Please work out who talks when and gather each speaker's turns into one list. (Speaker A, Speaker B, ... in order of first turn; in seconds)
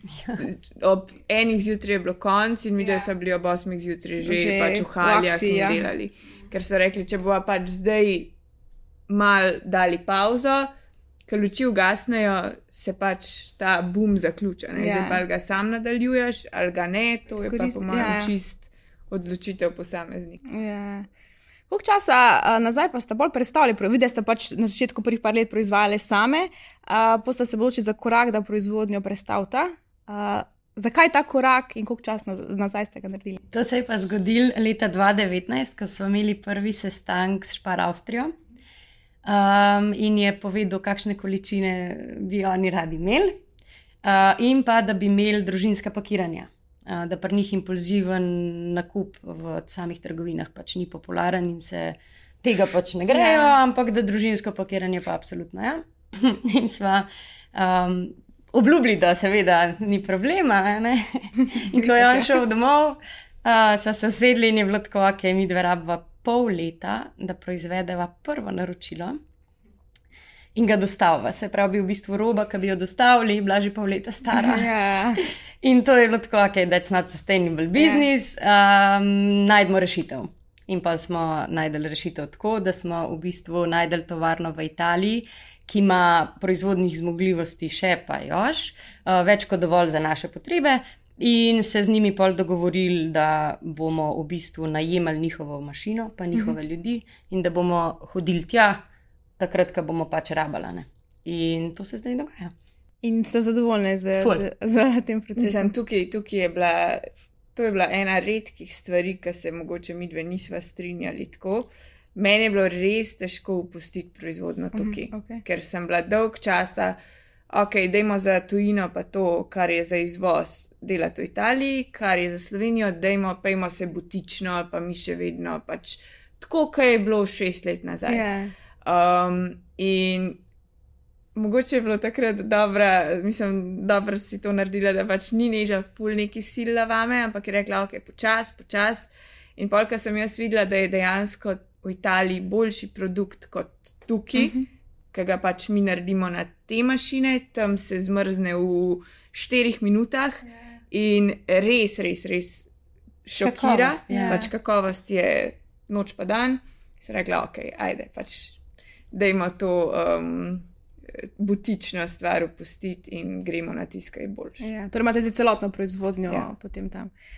Speaker A: 0.1-0.4, 33.5-38.3, 39.2-43.4, 44.0-69.2, 70.5-98.8, 99.4-102.5, 104.2-104.4, 153.3-154.4
Speaker B: 0.4-8.3, 9.1-10.7, 11.3-20.4, 105.4-117.0, 117.5-128.3, 128.8-130.4, 131.3-144.6, 145.1-152.7, 153.2-158.6, 159.1-164.6
Speaker C: 4.2-5.9, 14.8-15.2, 17.4-18.3, 20.5-21.1, 21.7-33.4, 53.1-53.5, 61.4-62.3, 74.3-75.2, 77.8-78.0, 103.0-105.7, 114.7-115.4, 128.1-128.5, 144.3-144.6, 154.1-154.5, 164.6-167.1